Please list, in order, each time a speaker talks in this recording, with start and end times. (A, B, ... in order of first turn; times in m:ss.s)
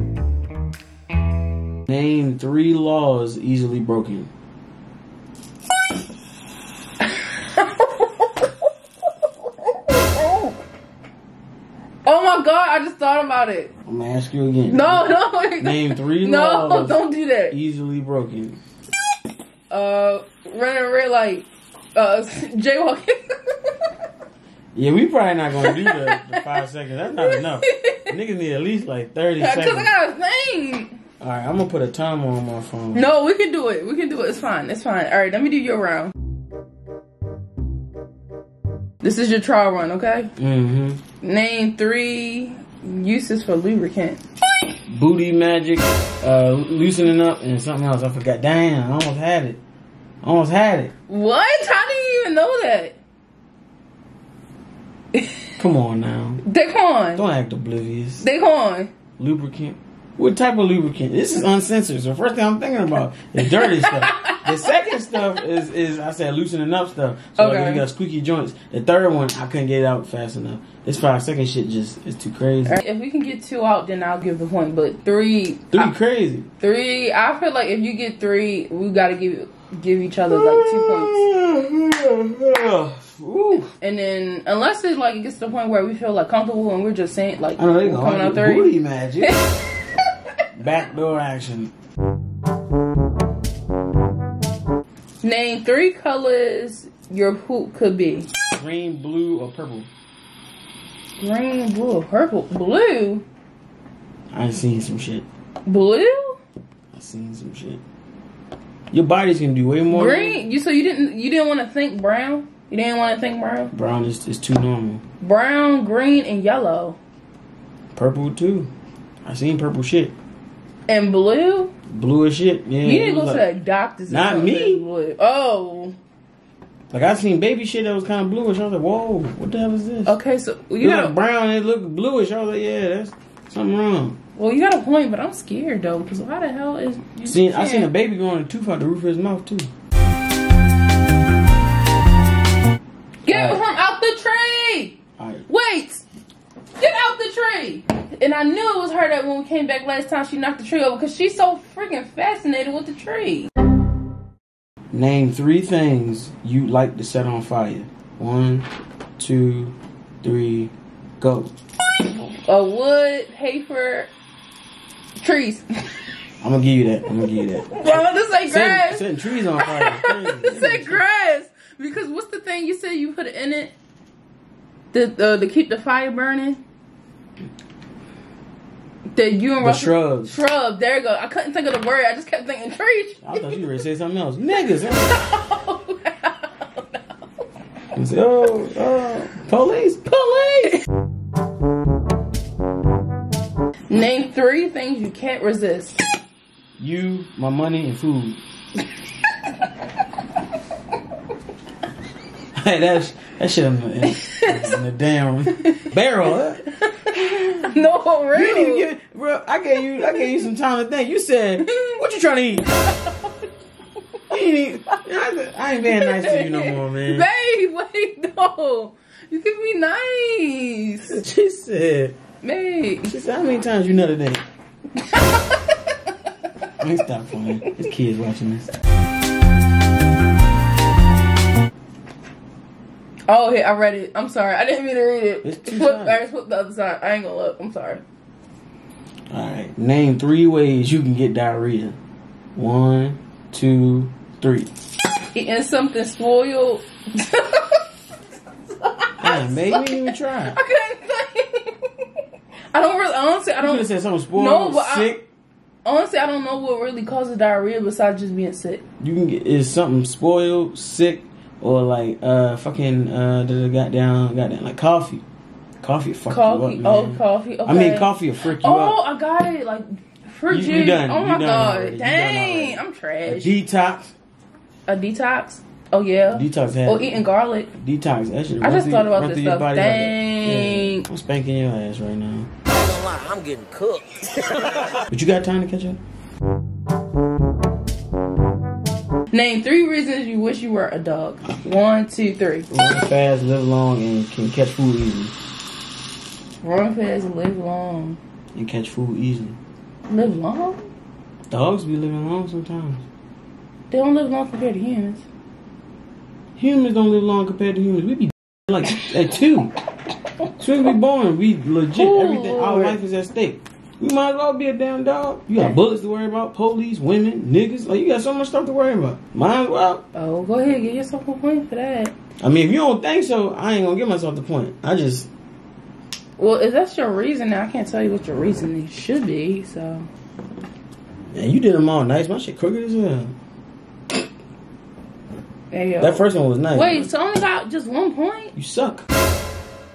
0:01.9-0:04.3 A
0:07.0-0:08.7 B
0:09.4-0:10.6 B
0:12.0-0:13.7 B
0:13.9-0:17.0 A
0:14.7-0:17.6 B
0:17.5-0:18.6 A
0:19.7-0:23.9 B
0:24.8-0:29.9 A
0:25.6-0:26.5 B
0:27.2-0:28.1 B
0:29.4-0:31.0 B
0:31.2-0:33.1 A
0:32.9-0:36.1 B
0:39.0-0:40.3 B
0:40.4-0:41.0 A
0:41.2-0:44.2 B
0:44.9-0:49.6 A
0:50.2-0:50.9 A
0:51.1-0:53.0 B
0:55.6-0:56.4 A
0:56.4-0:57.2 B
0:57.2-0:58.2 A
0:58.2-0:58.9 B
0:59.2-1:12.8 A
1:03.6-1:04.6 B
1:07.4-1:07.8 B
1:12.7-1:15.9 B
1:15.7-1:16.5 A
1:16.6-1:21.2 B
1:20.3-1:23.7 A
1:23.8-1:30.0 B
1:27.6-1:29.4 A
1:30.5-1:31.7 A
1:35.2-1:38.3 B
1:38.5-1:39.9 A
1:41.2-1:43.2 B
1:44.3-1:45.3 A
1:45.7-1:46.4 B
1:46.9-1:47.8 A
1:48.9-1:50.4 A
1:49.9-1:53.7 B
1:53.7-1:55.0 A
1:55.2-1:57.0 B
1:58.0-1:58.7 A
1:59.2-2:00.2 A
2:00.9-2:01.7 B
2:01.9-2:03.4 A
2:02.8-2:06.0 B
2:04.1-2:04.8 A
2:06.9-2:10.2 A
2:10.1-2:11.1 B
2:10.8-2:14.2 A
2:14.4-2:17.9 B
2:17.2-2:19.7 A
2:23.2-2:25.0 B
2:23.3-2:23.6 A
2:25.2-2:25.5 A
2:25.5-2:26.0 B
2:26.8-2:33.5 B
2:34.9-2:38.7 A
2:39.2-2:41.5 A
2:42.4-2:44.1 B
2:45.2-2:45.9 B
2:46.4-2:51.0 A
2:47.7-2:53.7 B
2:54.9-2:56.6 B
2:59.1-3:03.6 B
2:59.6-3:00.4 A
3:03.2-3:05.2 A
3:05.0-3:07.2 B
3:07.9-3:10.6 A
3:13.9-3:16.0 B
3:16.8-3:18.4 A
3:22.5-3:27.8 A
3:24.1-3:24.7 B
3:26.9-3:28.8 B
3:28.3-3:32.7 A
3:31.6-3:32.0 B
3:32.8-3:33.3 B
3:34.3-3:37.3 A
3:35.9-3:41.2 B
3:41.1-3:42.2 A
3:42.4-3:43.1 B
3:43.0-3:44.4 A
3:45.0-3:46.1 B
3:46.8-3:48.7 A
3:53.3-3:58.0 B
3:55.4-3:56.2 A
3:59.3-4:02.0 A
4:02.6-4:04.7 A
4:05.3-4:07.8 B
4:08.7-4:12.1 B
4:09.2-4:10.6 A
4:12.7-4:15.1 B
4:13.6-4:15.2 A
4:15.8-4:18.8 B
4:19.0-4:25.2 A
4:25.8-4:29.0 A
4:26.3-4:33.5 B
4:30.5-4:34.1 A
4:34.9-4:37.7 B
4:36.3-4:42.5 A
4:38.6-4:41.1 B
4:42.7-4:45.0 C
4:45.1-4:46.0 A
4:49.3-4:52.7 B
4:52.7-4:55.4 A
4:56.6-4:58.2 B
4:58.5-4:59.6 A
5:00.1-5:00.8 B
5:01.5-5:03.0 A
5:03.9-5:05.2 B
5:06.6-5:09.7 A
5:10.6-5:20.0 A
5:11.9-5:13.0 B
5:20.1-5:22.1 B
5:22.4-5:25.3 A
5:26.4-5:30.1 B
5:31.3-5:33.4 A
5:35.7-5:38.5 B
5:36.0-5:37.1 A
5:38.6-5:39.1 A